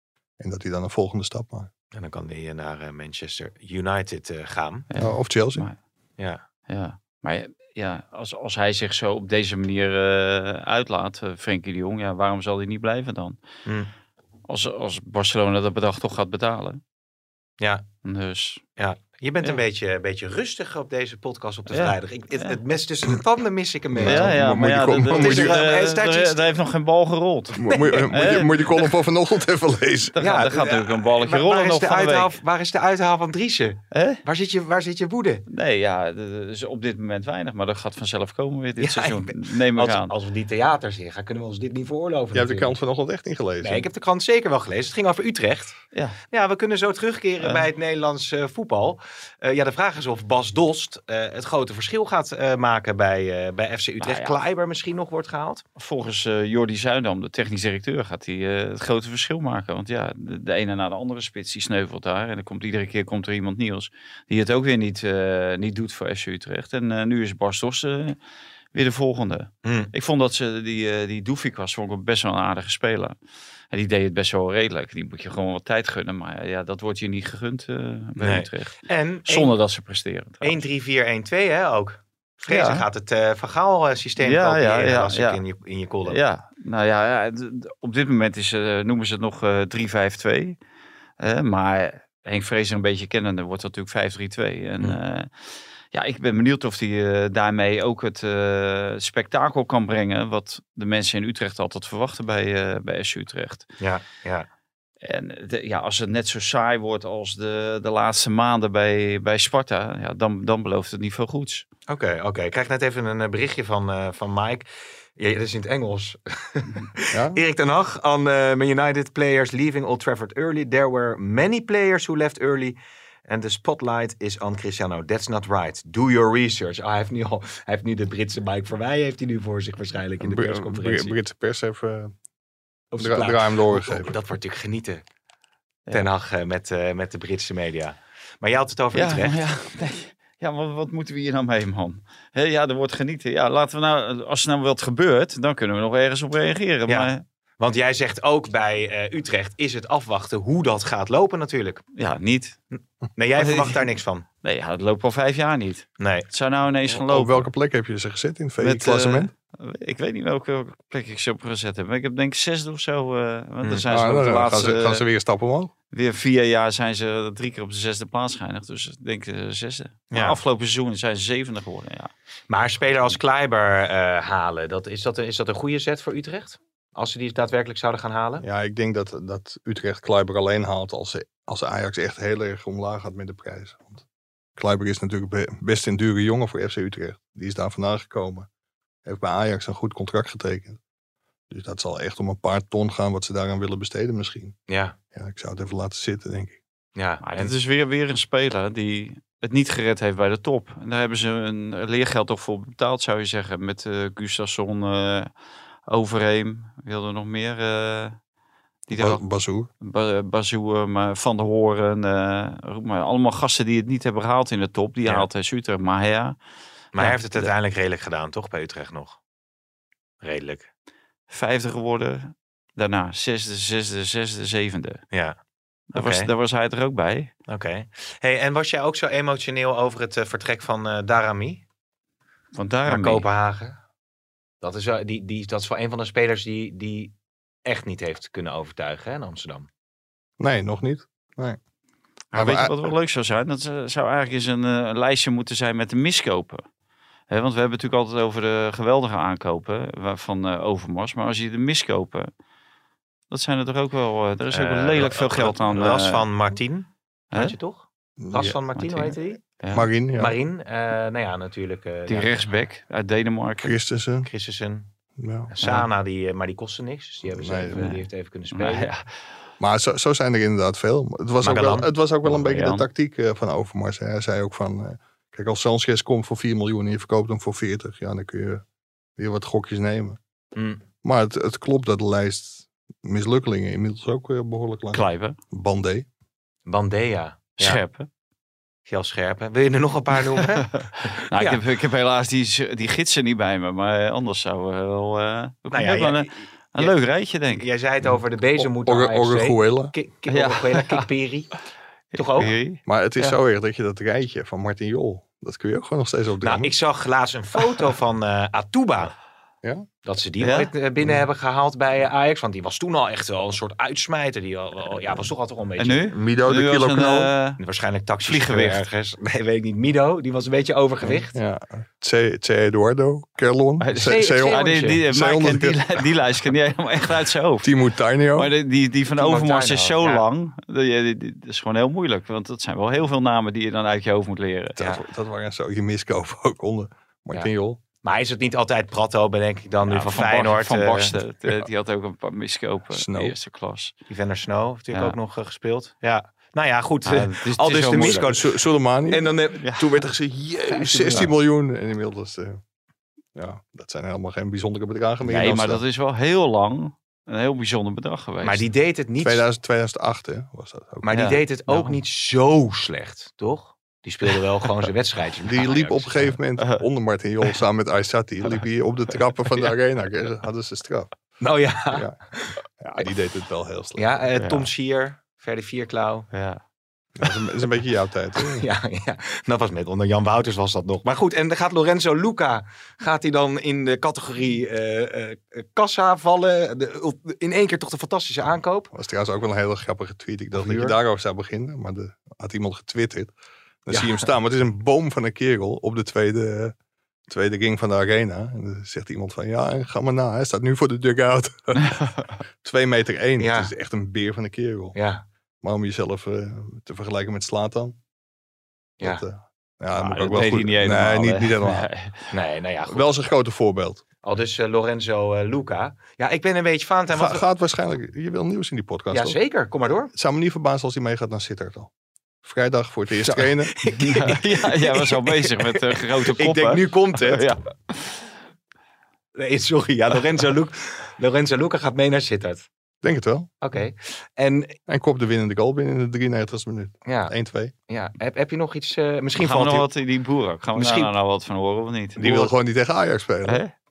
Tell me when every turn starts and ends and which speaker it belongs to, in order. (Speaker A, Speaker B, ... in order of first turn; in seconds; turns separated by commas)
Speaker A: 0.4-1.7, Speaker B: 1.9-4.9, Speaker C: 4.9-5.8, Speaker A: 5.0-5.7, Speaker C: 6.7-13.4, Speaker C: 14.5-16.8, Speaker B: 17.6-17.8, Speaker C: 18.0-18.6, Speaker B: 18.8-24.3, Speaker C: 21.7-22.6, Speaker A: 23.9-25.6, Speaker C: 24.0-28.6, Speaker B: 25.1-26.5, Speaker A: 27.6-30.2, Speaker B: 27.7-28.4, Speaker C: 30.1-32.3, Speaker B: 30.2-35.4, Speaker C: 33.9-34.2, Speaker C: 35.5-40.1, Speaker B: 38.8-42.7, Speaker A: 42.3-43.9, Speaker B: 43.6-45.8, Speaker C: 45.9-46.2, Speaker B: 46.3-55.6, Speaker C: 47.4-47.6, Speaker C: 54.0-54.4, Speaker C: 55.8-68.2, Speaker C: 68.7-73.2, Speaker B: 69.6-69.9, Speaker C: 73.7-80.6, Speaker B: 78.2-79.5, Speaker B: 80.4-86.2, Speaker C: 82.5-82.8, Speaker C: 84.2-85.4, Speaker C: 86.1-90.6, Speaker C: 91.2-103.7, Speaker B: 103.8-104.5, Speaker C: 105.0-111.7, Speaker B: 111.9-131.2, Speaker A: 117.1-117.4, Speaker A: 130.2-132.1, Speaker B: 132.9-135.0, Speaker A: 133.0-134.2, Speaker B: 135.9-139.4, Speaker C: 138.9-147.2, Speaker B: 146.9-151.8, Speaker C: 151.9-152.6, Speaker B: 152.7-154.2, Speaker C: 153.4-153.8, Speaker C: 154.4-157.5, Speaker B: 156.0-156.3, Speaker A: 156.9-159.3, Speaker C: 158.6-165.0, Speaker A: 163.9-165.7, Speaker C: 165.9-172.1, Speaker B: 170.1-170.4, Speaker B: 172.5-178.4, Speaker A: 178.4-184.0, Speaker A: 184.6-188.5, Speaker A: 189.0-190.8, Speaker A: 191.5-194.6, Speaker B: 194.7-194.9, Speaker A: 195.1-196.6, Speaker B: 196.9-197.5, Speaker C: 197.2-205.3, Speaker C: 205.9-208.2, Speaker C: 208.9-209.2, Speaker A: 208.9-209.7, Speaker C: 209.8-216.3, Speaker C: 216.9-217.5, Speaker B: 216.9-219.2, Speaker B: 220.2-220.7, Speaker C: 221.3-225.0, Speaker B: 225.1-225.4, Speaker C: 225.9-227.3, Speaker B: 225.9-226.3, Speaker B: 227.5-231.6, Speaker C: 232.5-233.2, Speaker B: 232.8-233.8, Speaker B: 234.6-239.7, Speaker A: 240.4-241.6, Speaker C: 242.3-246.6, Speaker A: 242.3-242.9, Speaker C: 247.3-252.3, Speaker C: 253.3-256.3, Speaker B: 254.5-259.4, Speaker A: 258.2-258.6, Speaker C: 258.4-259.9, Speaker A: 259.7-260.4, Speaker B: 260.1-262.5, Speaker C: 262.1-263.7, Speaker A: 263.6-264.3, Speaker B: 264.2-264.9, Speaker A: 265.2-265.5, Speaker B: 265.5-268.9, Speaker C: 265.6-265.9, Speaker A: 267.3-267.8, Speaker C: 267.7-269.1, Speaker A: 269.6-278.6, Speaker B: 271.4-271.9, Speaker C: 272.2-272.9, Speaker A: 279.2-280.2, Speaker B: 280.6-280.8, Speaker A: 281.0-286.1, Speaker C: 284.9-285.4, Speaker B: 286.7-287.8, Speaker C: 287.6-288.1, Speaker B: 288.9-291.6, Speaker C: 290.8-297.6, Speaker B: 295.7-296.9, Speaker B: 297.5-301.6, Speaker A: 298.6-299.9, Speaker C: 300.3-301.1, Speaker C: 302.1-303.4, Speaker B: 302.1-302.5, Speaker A: 302.8-306.7, Speaker B: 306.4-309.1, Speaker B: 310.0-316.1, Speaker C: 310.4-310.7, Speaker C: 315.8-317.6, Speaker A: 316.1-317.3, Speaker B: 317.6-321.3, Speaker C: 318.2-318.8, Speaker A: 321.1-326.0, Speaker C: 323.8-327.7, Speaker B: 324.0-325.0, Speaker A: 327.6-328.5, Speaker C: 328.3-334.8, Speaker B: 329.2-330.2, Speaker A: 334.8-337.8, Speaker B: 338.0-341.1, Speaker C: 339.8-343.9, Speaker A: 342.9-343.4, Speaker B: 344.1-348.5, Speaker C: 344.9-345.2, Speaker C: 347.1-348.3, Speaker A: 347.9-349.2, Speaker B: 349.1-351.3, Speaker A: 350.0-352.6, Speaker A: 353.3-355.8, Speaker C: 355.2-358.6, Speaker B: 358.4-359.4, Speaker A: 359.2-361.1, Speaker B: 361.0-366.2, Speaker C: 361.1-362.0, Speaker A: 365.4-371.1, Speaker C: 366.6-366.8, Speaker B: 371.4-372.6, Speaker A: 371.9-372.1, Speaker A: 372.8-374.1, Speaker B: 373.9-376.3, Speaker C: 374.4-374.7, Speaker C: 376.3-376.6, Speaker A: 377.2-378.7, Speaker B: 378.4-388.9, Speaker A: 388.9-393.3, Speaker B: 390.5-391.0, Speaker A: 393.9-396.7, Speaker B: 393.9-394.3, Speaker A: 397.3-402.1, Speaker C: 401.9-402.3, Speaker A: 402.6-405.0, Speaker B: 403.4-403.7, Speaker B: 404.9-405.2, Speaker A: 405.6-408.0, Speaker A: 409.0-411.9, Speaker B: 410.0-410.7, Speaker C: 410.2-412.3, Speaker B: 412.3-413.1, Speaker A: 412.9-414.0, Speaker B: 414.2-417.4, Speaker A: 417.1-419.4, Speaker B: 419.1-420.1, Speaker A: 420.1-421.9, Speaker A: 422.4-423.8, Speaker B: 423.2-427.5, Speaker C: 423.9-428.2, Speaker B: 429.3-432.7, Speaker A: 433.0-433.5, Speaker B: 433.6-434.8, Speaker A: 434.9-437.7, Speaker B: 437.0-437.3, Speaker B: 437.9-439.9, Speaker C: 439.4-442.5, Speaker B: 440.7-441.1, Speaker A: 442.2-443.6, Speaker C: 443.4-443.7